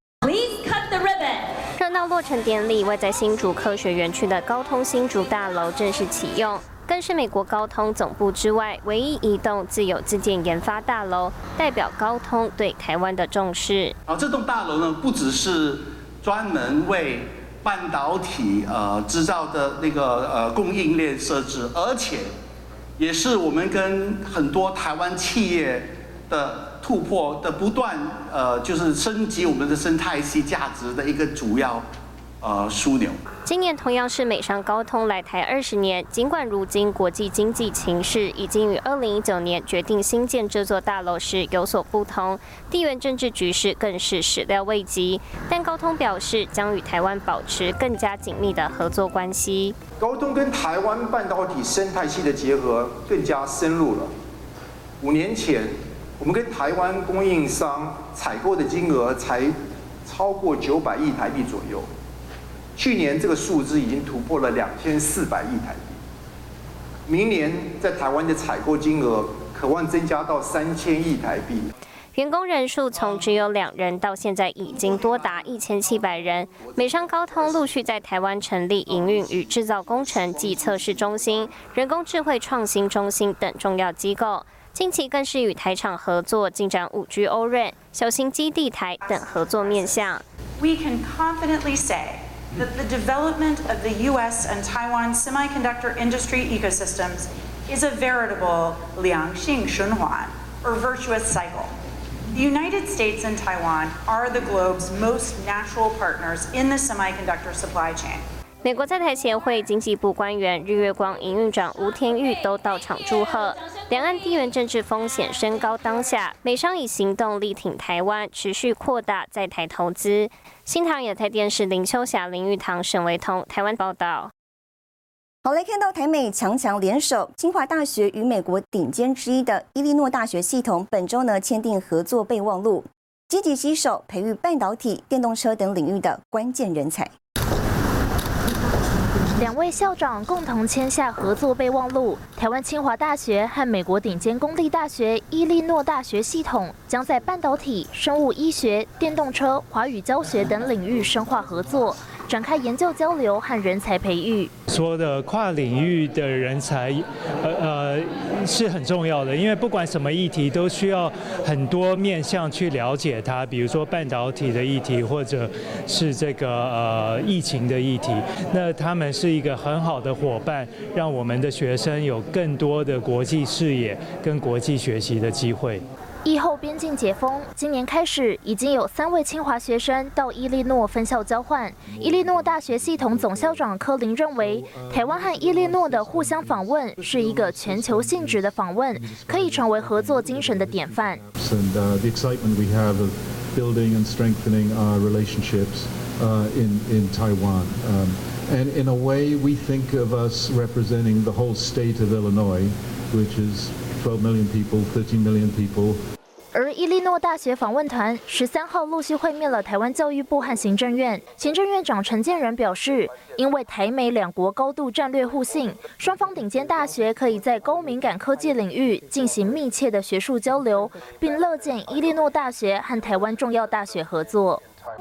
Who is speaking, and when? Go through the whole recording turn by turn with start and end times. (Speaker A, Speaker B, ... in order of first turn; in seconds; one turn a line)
Speaker A: 1.8-13.9
Speaker B: 14.1-22.3
Speaker B: 23.0-31.9
Speaker B: 32.4-33.2
Speaker A: 33.5-49.8
Speaker C: 50.0-54.1
Speaker C: 55.0-61.9
Speaker C: 62.8-66.0
Speaker C: 67.1-71.7
Speaker A: 72.1-90.2
Speaker D: 89.1-101.7
Speaker D: 102.3-108.2
Speaker A: 108.6-124.3
Speaker E: 125.4-137.1
Speaker F: 139.3-154.5
Speaker G: 154.7-175.8
Speaker F: 176.2-191.2
Speaker H: 181.8-183.7
Speaker H: 184.3-206.0
Speaker F: 206.5-224.6